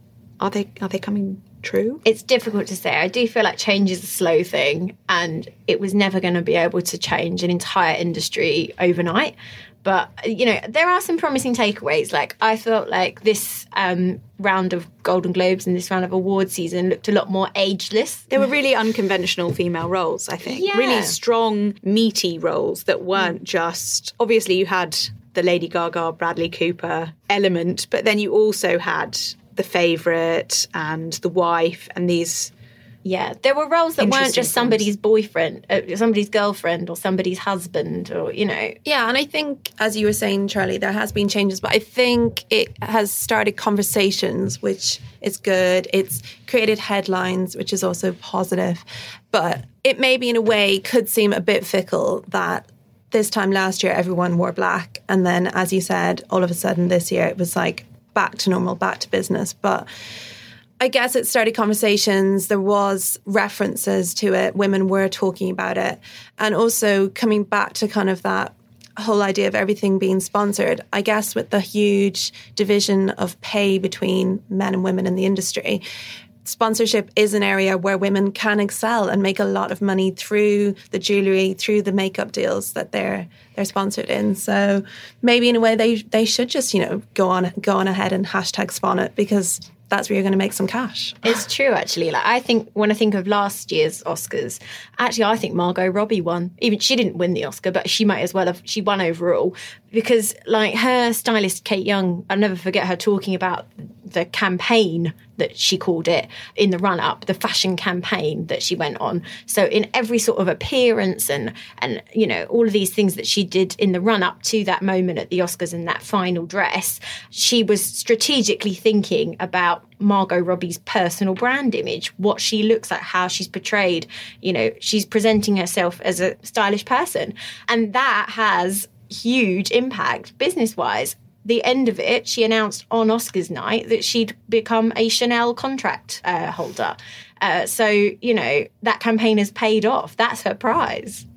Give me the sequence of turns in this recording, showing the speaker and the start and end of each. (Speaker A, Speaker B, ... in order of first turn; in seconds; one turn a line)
Speaker A: 0.4-2.0
Speaker B: 2.0-18.3
Speaker A: 18.3-32.5
Speaker B: 20.5-21.1
Speaker B: 33.0-38.8
Speaker A: 34.0-34.8
Speaker C: 38.8-59.9
Speaker C: 60.8-75.8
Speaker C: 76.4-91.4
Speaker B: 91.2-141.2